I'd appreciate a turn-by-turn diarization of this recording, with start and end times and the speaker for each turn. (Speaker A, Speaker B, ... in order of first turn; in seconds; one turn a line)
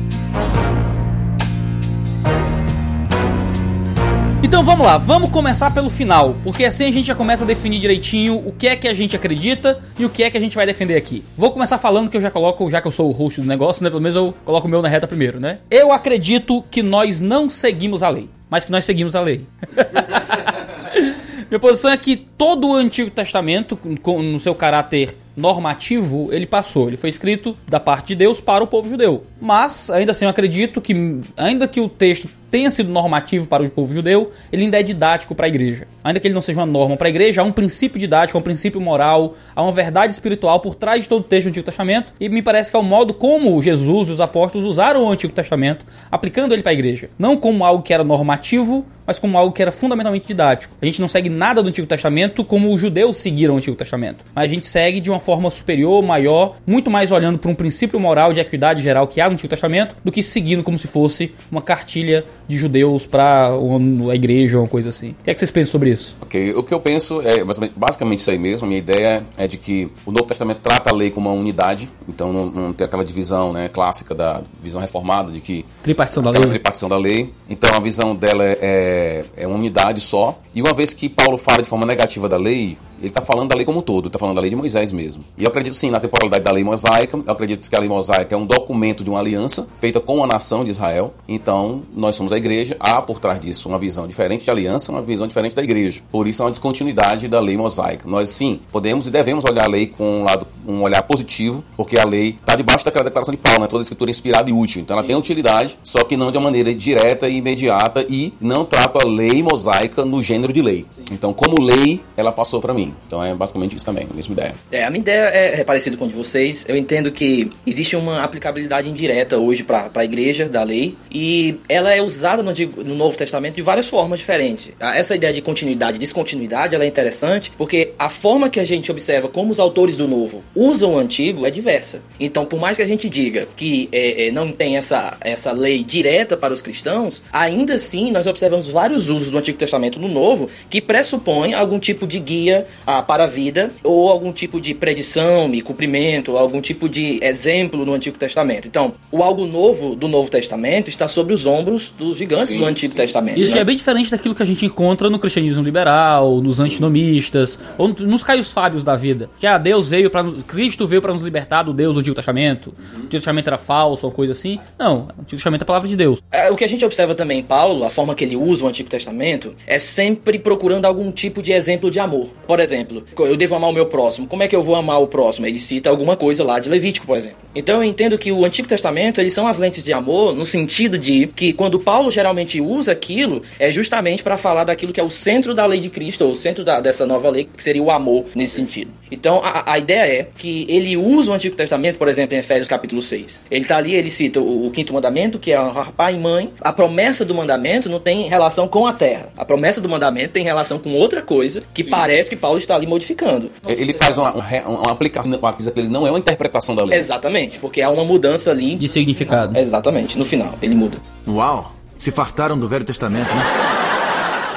Speaker A: 4.4-66.1
Speaker B: 66.2-114.6
Speaker A: 75.8-76.6
Speaker C: 114.7-153.6
Speaker A: 153.3-166.2
Speaker C: 166.3-203.7
Speaker B: 203.7-207.1
Speaker C: 206.9-208.8
Speaker A: 208.8-209.6
Speaker C: 209.5-211.0
Speaker D: 211.2-213.5